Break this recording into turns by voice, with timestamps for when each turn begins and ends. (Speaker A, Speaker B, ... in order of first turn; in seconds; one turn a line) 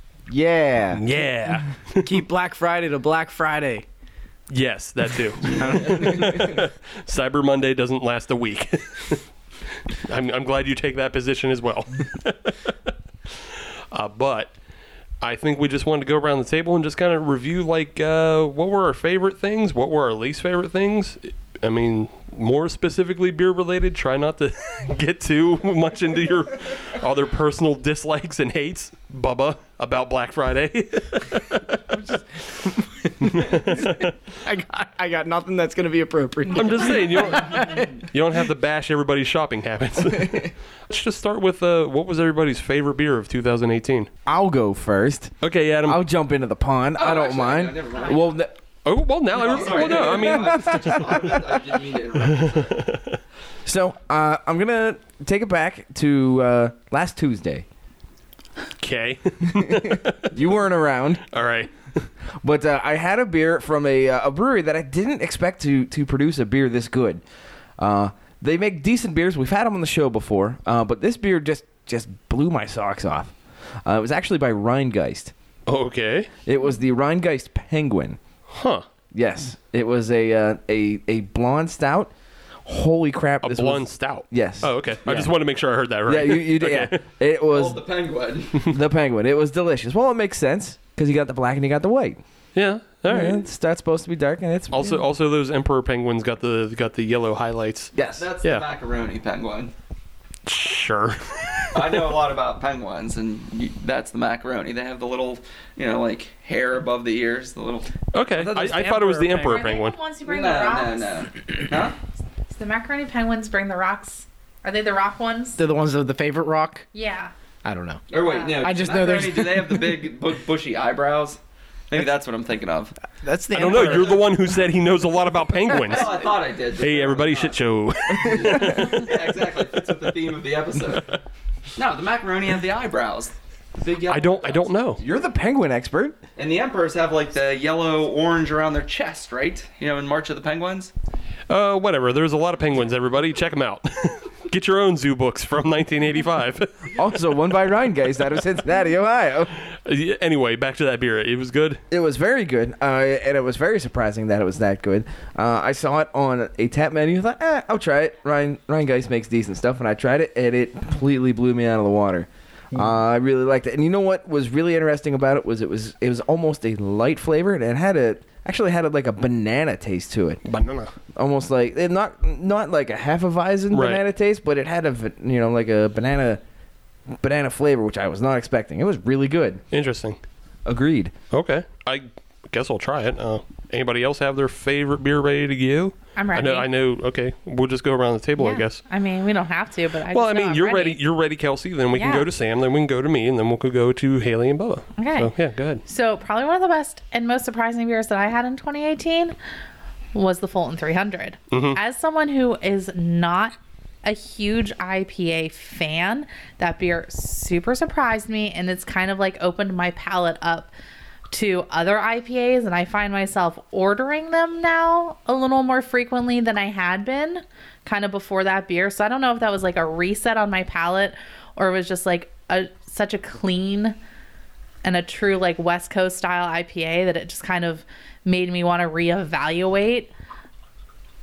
Speaker A: 0.3-1.0
Speaker B: 0.9-2.1
Speaker C: 1.9-3.8
Speaker B: 4.5-9.2
Speaker C: 5.5-6.5
Speaker B: 9.9-12.7
Speaker B: 13.9-14.5
Speaker B: 15.2-31.8
Speaker C: 31.9-38.1
Speaker B: 33.2-34.1
Speaker B: 36.5-44.1
Speaker A: 44.2-48.6
Speaker B: 45.4-46.0
Speaker D: 47.0-48.3
Speaker B: 48.8-51.1
Speaker D: 49.3-52.8
Speaker A: 49.9-51.5
Speaker B: 52.2-53.2
Speaker A: 53.6-57.7
Speaker B: 58.8-60.3
Speaker A: 59.6-61.2
Speaker B: 61.3-61.7
Speaker A: 62.4-67.2
Speaker A: 67.8-75.3
Speaker B: 75.7-76.3
Speaker A: 76.5-78.2
Speaker B: 78.5-78.8
Speaker A: 79.1-82.1
Speaker A: 82.7-85.3
Speaker B: 83.4-87.0
Speaker A: 86.1-87.8
Speaker D: 87.5-88.7
Speaker A: 88.7-92.2
Speaker B: 92.5-93.4
Speaker A: 93.1-94.9
Speaker B: 94.7-98.7
Speaker A: 97.9-98.2
Speaker D: 98.2-99.7
Speaker B: 100.5-102.2
Speaker D: 101.7-109.1
Speaker B: 108.1-109.9
Speaker C: 108.4-109.5
Speaker E: 109.4-111.2
Speaker D: 110.2-112.0
Speaker E: 112.5-115.6
Speaker C: 115.6-116.9
Speaker E: 116.9-117.3
Speaker C: 117.7-118.0
Speaker D: 118.1-122.9
Speaker E: 118.1-118.7
Speaker C: 118.6-120.0
Speaker C: 123.2-124.4
Speaker B: 123.5-129.1
Speaker D: 123.6-124.0
Speaker D: 125.8-127.6
Speaker D: 128.2-131.1
Speaker D: 131.8-134.7
Speaker B: 134.1-135.0
Speaker A: 135.0-136.2
Speaker D: 136.3-140.9
Speaker B: 141.5-147.2
Speaker A: 146.9-149.5
Speaker B: 149.7-151.8
Speaker A: 151.9-170.4
Speaker B: 170.4-170.9
Speaker A: 171.2-176.4
Speaker B: 173.7-174.0
Speaker A: 177.2-179.6
Speaker B: 179.7-180.2
Speaker A: 180.7-181.1
Speaker B: 181.3-188.8
Speaker E: 186.2-186.7
Speaker E: 188.4-191.0
Speaker B: 190.1-195.8
Speaker E: 191.9-192.3
Speaker E: 195.0-195.3
Speaker E: 195.8-199.3
Speaker E: 200.1-210.7
Speaker B: 201.5-201.8
Speaker E: 211.3-224.0
Speaker E: 224.8-230.1